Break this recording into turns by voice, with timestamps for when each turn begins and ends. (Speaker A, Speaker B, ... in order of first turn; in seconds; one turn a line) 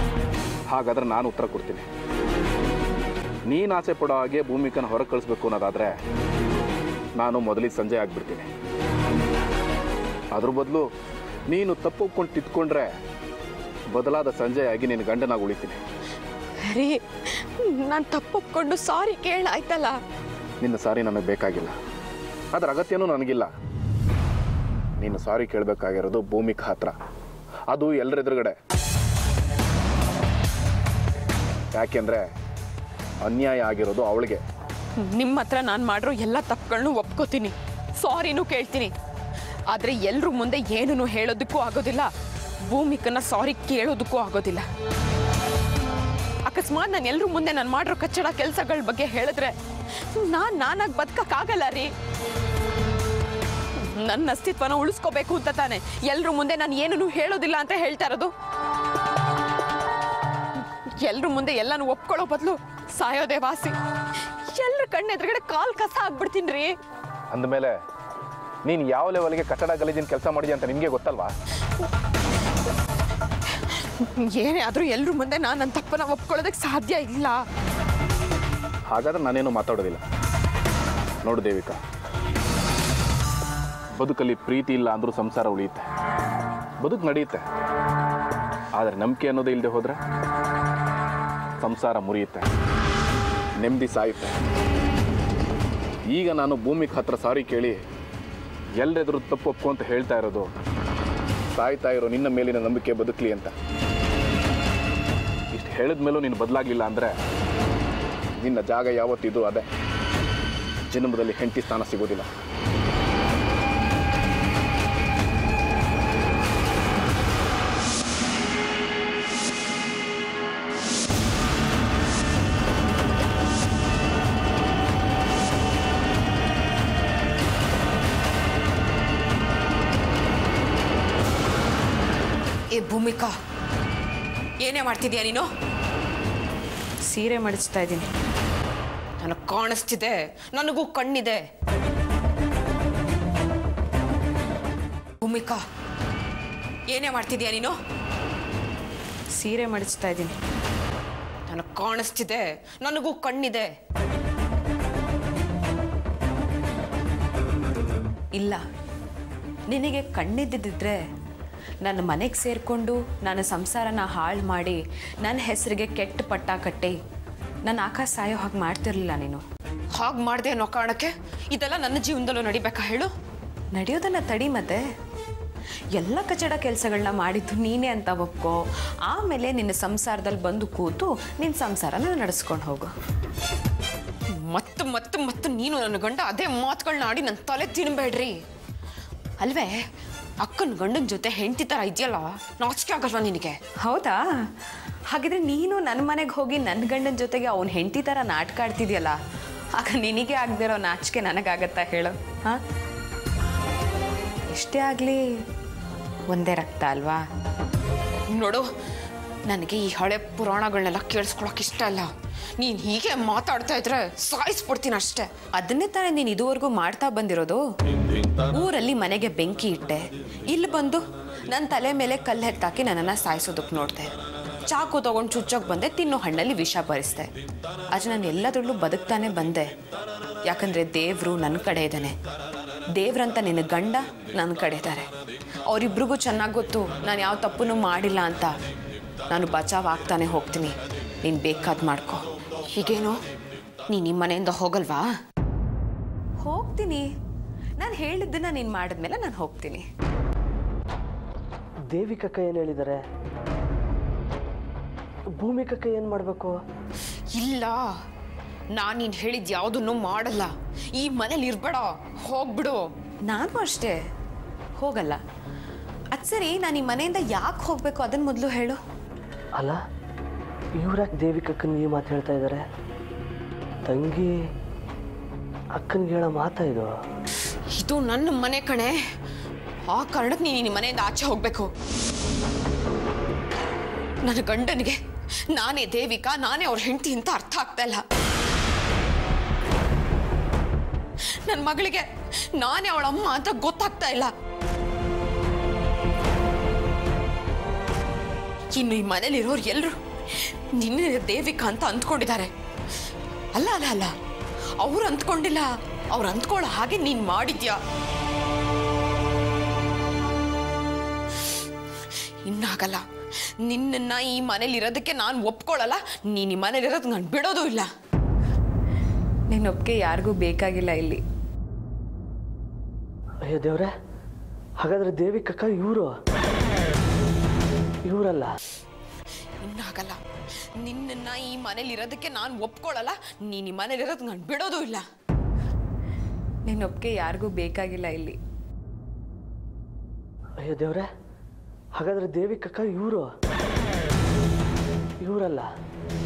Speaker A: 0.7-1.9
Speaker A: 3.5-5.9
Speaker A: 7.2-8.5
Speaker A: 10.3-10.9
Speaker A: 11.5-12.9
Speaker A: 13.9-15.8
Speaker B: 16.7-17.0
Speaker B: 17.6-20.0
Speaker A: 20.6-21.8
Speaker A: 22.5-23.5
Speaker A: 25.0-26.9
Speaker A: 27.7-28.6
Speaker A: 31.7-32.2
Speaker A: 33.2-34.4
Speaker B: 35.0-38.9
Speaker B: 39.7-42.1
Speaker B: 42.7-44.6
Speaker B: 46.5-49.5
Speaker B: 50.1-51.9
Speaker B: 53.8-58.3
Speaker B: 61.0-63.8
Speaker B: 64.5-66.8
Speaker A: 67.3-67.8
Speaker A: 68.7-71.3
Speaker B: 74.0-77.4
Speaker A: 78.9-80.0
Speaker A: 81.2-81.8
Speaker A: 84.0-85.9
Speaker A: 86.8-87.5
Speaker A: 88.7-90.0
Speaker A: 91.6-92.5
Speaker A: 93.6-94.3
Speaker A: 96.1-97.8
Speaker A: 98.8-100.5
Speaker A: 101.6-103.5
Speaker A: 105.5-107.2
Speaker A: 108.4-109.6
Speaker A: 110.9-112.3
Speaker B: 132.7-133.3
Speaker B: 134.6-135.4
Speaker B: 137.1-138.1
Speaker B: 139.2-141.4
Speaker B: 145.2-145.6
Speaker B: 146.9-147.8
Speaker B: 149.4-150.3
Speaker B: 151.5-153.7
Speaker B: 158.4-158.6
Speaker B: 159.7-161.0
Speaker B: 161.8-166.9
Speaker B: 167.7-169.4
Speaker B: 169.9-173.1
Speaker B: 173.7-174.8
Speaker B: 175.9-182.9
Speaker B: 184.3-188.3
Speaker B: 189.4-189.8
Speaker B: 190.4-194.5
Speaker B: 195.1-199.2
Speaker B: 199.8-202.6
Speaker B: 204.5-205.2
Speaker B: 206.3-207.2
Speaker B: 208.3-208.7
Speaker B: 209.5-212.1
Speaker B: 212.6-217.6
Speaker B: 218.4-224.1
Speaker B: 224.7-227.3
Speaker B: 227.9-229.7
Speaker B: 230.5-232.2
Speaker B: 232.9-235.1
Speaker B: 235.7-238.5
Speaker B: 239.3-243.2
Speaker B: 243.9-245.1
Speaker B: 246.4-247.1
Speaker B: 247.8-249.8
Speaker C: 251.9-253.0
Speaker C: 255.4-256.6
Speaker B: 257.3-257.9
Speaker B: 258.8-264.0
Speaker B: 264.8-265.2
Speaker B: 266.1-268.8
Speaker C: 270.8-272.6
Speaker C: 273.9-274.3
Speaker C: 275.8-276.9
Speaker B: 277.7-279.0
Speaker B: 279.9-281.7
Speaker B: 284.2-285.0
Speaker B: 285.5-288.0
Speaker B: 291.5-294.3
Speaker B: 298.8-299.9
Speaker B: 300.8-302.5
Speaker B: 303.6-304.1
Speaker B: 304.8-307.8
Speaker B: 312.4-313.0
Speaker B: 313.6-317.9
Speaker B: 319.5-321.2
Speaker C: 323.4-323.9
Speaker C: 324.8-326.1
Speaker C: 328.1-328.5
Speaker B: 329.6-330.2
Speaker B: 330.8-335.0
Speaker B: 336.7-338.4
Speaker C: 340.6-341.1
Speaker C: 342.0-343.3
Speaker C: 345.2-345.7